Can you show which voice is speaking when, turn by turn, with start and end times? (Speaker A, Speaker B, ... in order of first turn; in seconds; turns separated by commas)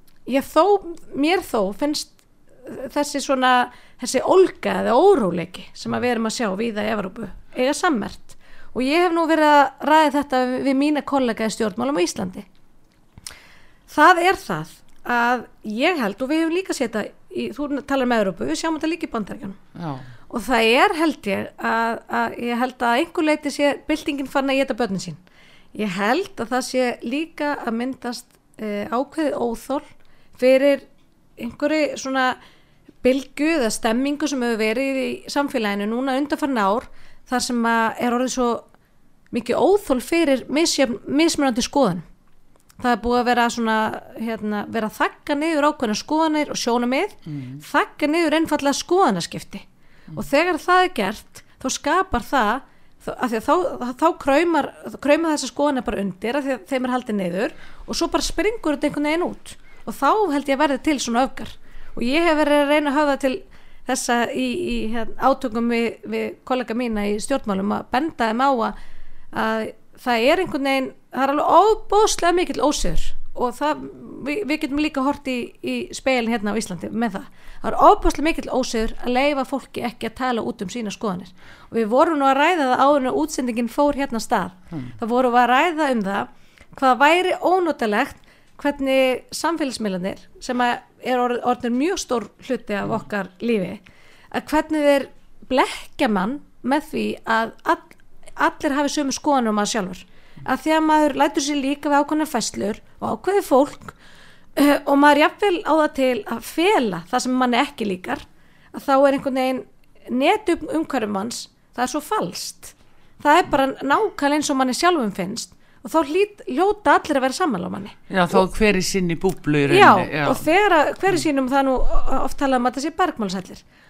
Speaker A: 0.3-12.5, Speaker A: 13.9-19.6, Speaker B: 19.8-20.1, Speaker A: 20.3-25.2, Speaker A: 25.7-29.9, Speaker A: 30.4-30.8, Speaker A: 31.4-32.4, Speaker A: 33.0-38.6, Speaker A: 39.3-42.0, Speaker A: 42.8-68.8, Speaker B: 47.3-47.6, Speaker A: 69.3-93.8, Speaker A: 94.3-104.0, Speaker A: 104.6-118.4, Speaker B: 118.1-120.5, Speaker A: 119.7-123.6